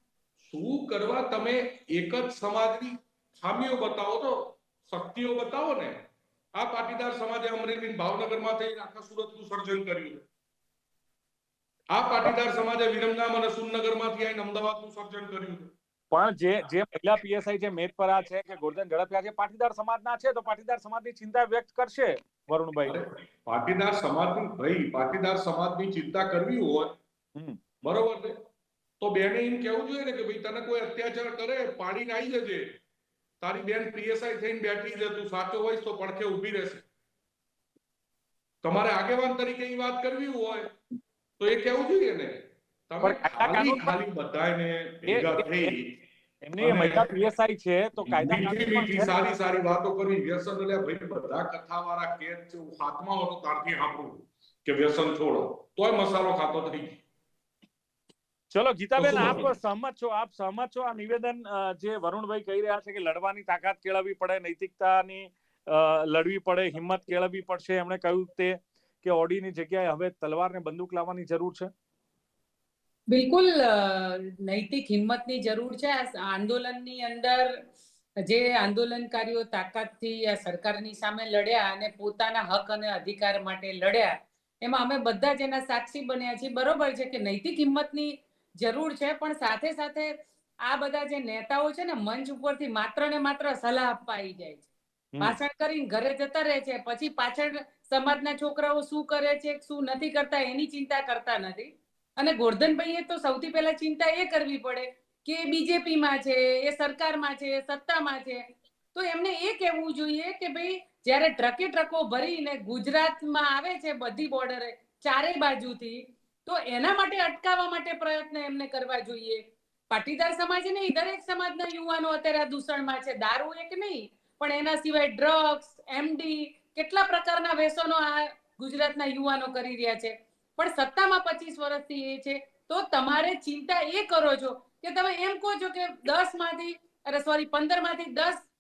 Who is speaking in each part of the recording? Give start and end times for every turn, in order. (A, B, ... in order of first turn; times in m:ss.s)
0:00.4-0:06.0 A
0:06.6-0:10.2 A
0:11.9-0:15.7 A
0:16.1-0:23.0 B
0:22.8-0:27.0 A
0:27.8-0:28.4 A
0:29.0-0:32.8 A
0:33.4-0:36.8 A
0:38.6-0:40.7 A
0:41.4-0:46.0 A
0:43.0-0:44.0 B
0:45.1-0:45.8 B
0:46.4-0:49.1 B
0:46.6-0:47.1 A
0:48.1-0:57.0 A
0:58.5-1:11.7 B
0:59.0-0:59.5 A
1:13.1-1:17.6 C
1:18.2-1:34.7 C
1:35.2-1:48.4 C
1:48.9-2:18.5 C